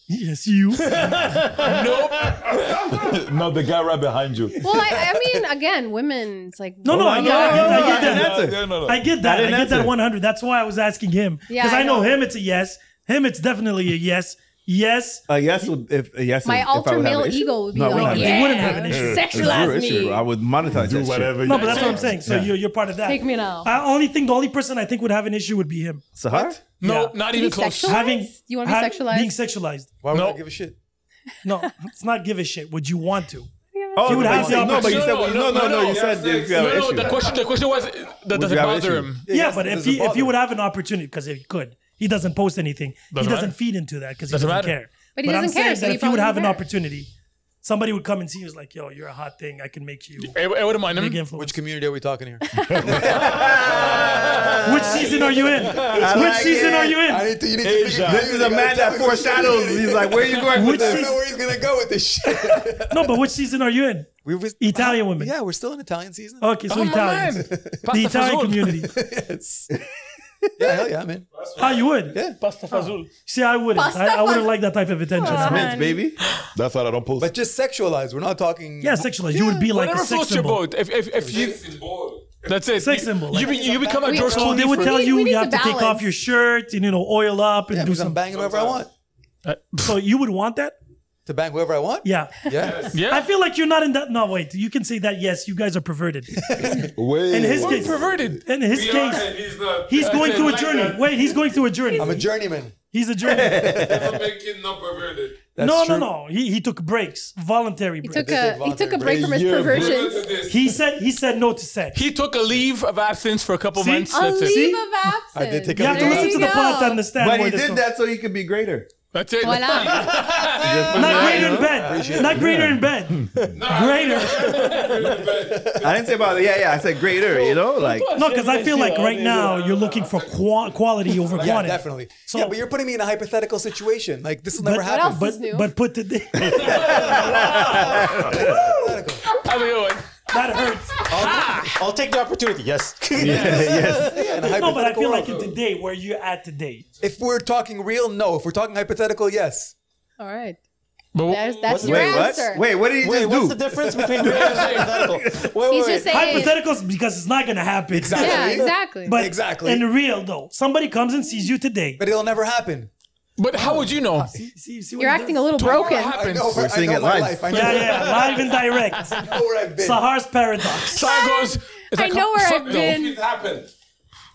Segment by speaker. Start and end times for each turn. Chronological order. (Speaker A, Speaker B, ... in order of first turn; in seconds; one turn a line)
Speaker A: 0.1-1.2
Speaker B: 1.0-4.8
Speaker C: 1.6-2.7
Speaker D: 4.6-8.3
Speaker E: 4.7-5.4
Speaker A: 6.8-15.7
Speaker F: 6.9-8.6
Speaker B: 7.7-9.1
Speaker F: 9.2-9.9
Speaker D: 11.5-12.2
Speaker F: 15.3-22.6
Speaker D: 16.4-20.3
Speaker A: 17.9-19.4
Speaker B: 19.0-19.5
Speaker B: 20.7-22.3
Speaker A: 21.4-26.1
Speaker D: 23.0-23.7
Speaker F: 26.2-26.6
Speaker A: 26.7-27.2
Speaker C: 26.8-28.0
Speaker D: 27.3-29.4
Speaker A: 27.8-29.9
Speaker E: 30.0-30.8
Speaker C: 30.1-30.4
Speaker A: 31.4-33.5
Speaker D: 33.7-34.2
Speaker F: 34.0-37.3
Speaker E: 34.0-35.1
Speaker A: 34.0-35.1
Speaker C: 34.6-39.2
Speaker G: 35.0-37.6
Speaker F: 38.3-39.2
Speaker E: 39.2-40.4
Speaker A: 39.3-47.1
Speaker C: 43.1-43.5
Speaker C: 44.3-44.8
Speaker D: 45.1-46.6
Speaker A: 47.6-50.4
Speaker C: 50.2-51.2
Speaker A: 50.9-51.6
Speaker E: 51.3-63.1
Speaker D: 52.5-52.9
Speaker B: 52.6-53.1
Speaker F: 52.8-57.0
Speaker A: 54.6-57.3
Speaker B: 57.6-58.5
Speaker F: 58.0-61.2
Speaker A: 60.5-61.2
Speaker A: 62.8-65.3
Speaker E: 64.2-67.9
Speaker A: 66.4-68.9
Speaker C: 66.7-68.8
Speaker E: 68.8-69.7
Speaker F: 70.4-70.8
Speaker E: 70.6-71.3
Speaker G: 71.3-72.1
Speaker A: 71.6-75.7
Speaker E: 72.1-72.4
Speaker C: 72.4-73.1
Speaker D: 73.7-74.5
Speaker D: 75.1-76.1
Speaker F: 75.3-76.2
Speaker B: 76.5-77.3
Speaker E: 77.2-79.1
Speaker A: 78.8-80.6
Speaker C: 79.5-81.6
Speaker E: 81.2-81.6
Speaker G: 81.3-82.6
Speaker C: 82.5-85.0
Speaker A: 82.8-83.6
Speaker E: 83.4-84.8
Speaker D: 84.0-86.1
Speaker A: 84.1-88.2
Speaker E: 87.7-88.9
Speaker G: 88.3-88.9
Speaker C: 89.5-89.9
Speaker A: 89.8-90.8
Speaker E: 91.3-92.9
Speaker A: 92.0-102.3
Speaker G: 92.6-93.0
Speaker C: 92.9-93.3
Speaker E: 96.4-96.9
Speaker B: 96.8-98.4
Speaker C: 97.6-98.4
Speaker G: 98.7-101.5
Speaker C: 100.0-100.6
Speaker D: 101.9-102.2
Speaker E: 102.0-102.7
Speaker A: 102.9-103.6
Speaker F: 103.2-104.2
Speaker G: 103.5-105.5
Speaker E: 103.7-104.0
Speaker E: 105.5-106.1
Speaker A: 105.6-108.3
Speaker D: 108.0-110.4
Speaker E: 108.1-109.9
Speaker B: 109.3-110.0
Speaker G: 109.5-110.8
Speaker A: 110.5-112.0
Speaker C: 111.9-114.6
Speaker A: 113.8-115.1
Speaker D: 114.1-117.1
Speaker E: 115.3-116.6
Speaker A: 115.7-117.9
Speaker F: 117.1-118.9
Speaker C: 119.1-121.8
Speaker D: 119.4-120.3
Speaker F: 120.5-121.7
Speaker E: 120.9-122.6
Speaker A: 120.9-124.5
Speaker B: 122.4-123.5
Speaker G: 123.5-125.9
Speaker C: 124.3-125.0
Speaker H: 125.1-125.7
Speaker F: 125.8-128.1
Speaker C: 127.3-129.6
Speaker A: 128.2-132.6
Speaker G: 129.3-130.6
Speaker G: 131.3-131.6
Speaker E: 131.4-135.3
Speaker A: 134.6-138.1
Speaker D: 134.8-135.7
Speaker F: 136.4-138.7
Speaker C: 136.4-138.7
Speaker E: 138.1-139.3
Speaker C: 139.2-141.8
Speaker A: 140.3-141.1
Speaker H: 141.1-144.6
Speaker F: 143.2-144.2
Speaker E: 143.2-145.4
Speaker A: 144.6-146.8
Speaker G: 145.2-145.5
Speaker E: 147.0-149.8
Speaker D: 150.2-150.6
Speaker C: 151.1-151.5
Speaker D: 151.3-152.7
Speaker G: 151.3-151.8
Speaker H: 151.7-156.5
Speaker F: 151.8-153.6
Speaker E: 153.8-154.3
Speaker F: 154.2-155.5
Speaker C: 154.2-155.0
Speaker D: 155.7-156.6
Speaker A: 156.1-162.0
Speaker E: 157.9-159.9
Speaker D: 158.2-159.2
Speaker E: 162.0-162.9
Speaker C: 163.4-164.3
Speaker E: 163.5-164.5
Speaker A: 164.3-165.5
Speaker D: 165.0-166.3
Speaker C: 165.6-166.7
Speaker E: 165.9-170.1
Speaker F: 166.5-167.8
Speaker A: 167.5-169.2
Speaker C: 167.5-168.5
Speaker C: 169.1-169.4
Speaker A: 169.8-171.1
Speaker C: 170.9-173.1
Speaker D: 170.9-173.2
Speaker G: 172.6-173.7